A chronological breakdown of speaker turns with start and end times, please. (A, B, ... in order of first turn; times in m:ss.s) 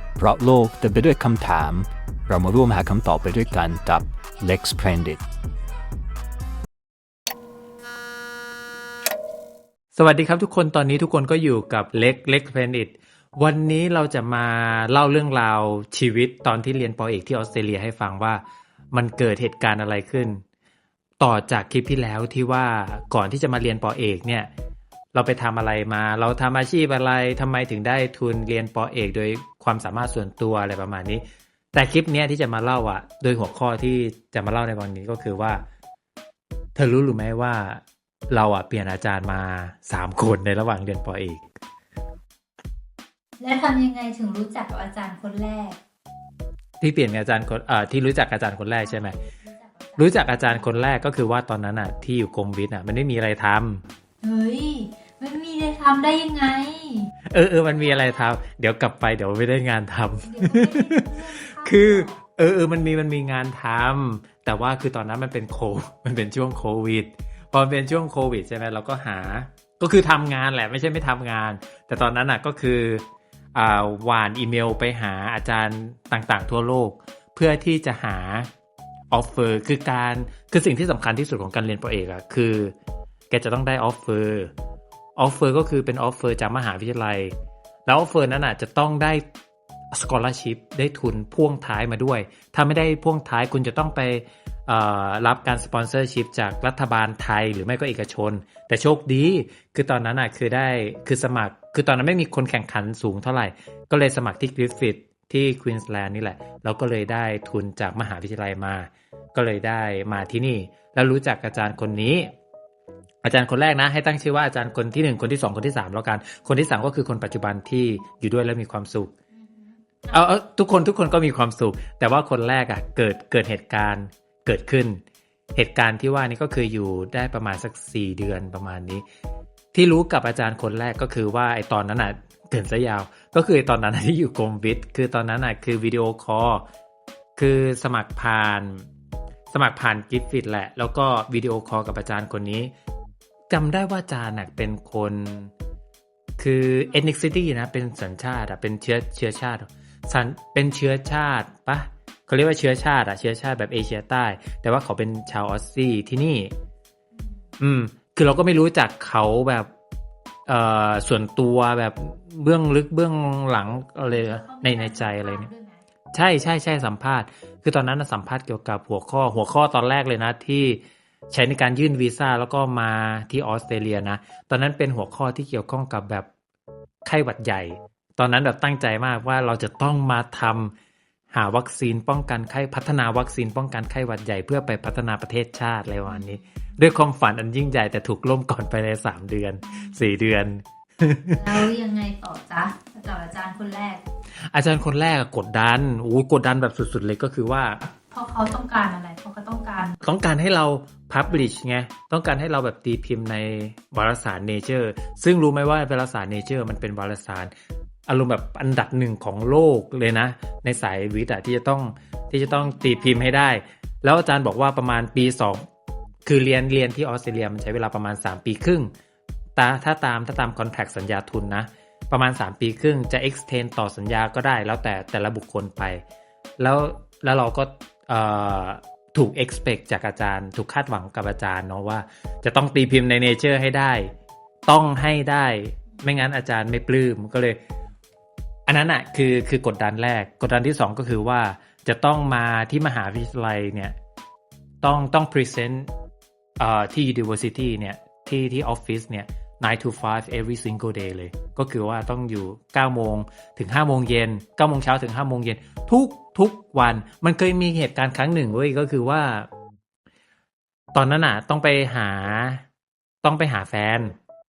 0:00.2-0:05.2 A
0:10.0-0:20.4 B
0:21.2-0:24.5 B
0:25.1-0:35.6 B
0:36.8-0:41.4 B
0:43.4-0:45.8 C
0:46.8-0:49.2 B
0:48.8-0:50.7 C
0:50.0-0:53.8 B
0:54.2-0:57.1 C
0:57.3-1:18.5 B
0:57.8-0:58.2 C
1:00.3-1:02.2 C
1:19.1-1:22.8 B
1:23.3-1:24.5 B
1:25.2-1:27.3 B
1:27.9-1:29.2 B
1:29.9-1:52.3 B
1:53.2-1:59.1 B
1:59.3-2:00.3 C
2:00.1-2:05.0 B
2:05.6-2:09.0 B
2:09.7-2:16.7 B
2:17.4-2:18.9 B
2:19.5-2:22.7 B
2:23.5-2:25.5 B
2:26.4-2:36.5 B
2:37.1-2:37.5 C
2:37.6-2:39.7 B
2:40.5-2:45.5 B
2:44.1-2:45.8 C
2:46.1-2:56.3 B
2:57.0-3:00.7 B
3:01.3-3:11.6 B
3:06.0-3:06.7 C
3:09.6-3:10.0 C
3:11.3-3:14.0 C
3:14.5-3:17.9 B
3:18.1-3:20.0 C
3:20.0-3:27.5 B
3:28.1-3:35.7 B
3:32.4-3:33.3 C
3:36.2-3:38.9 B
3:39.6-3:46.0 B
3:46.6-3:54.1 B
3:54.7-3:57.6 B
3:58.7-4:04.0 B
4:04.8-4:05.9 B
4:06.6-4:19.5 B
4:20.9-4:22.6 B
4:23.2-4:24.2 B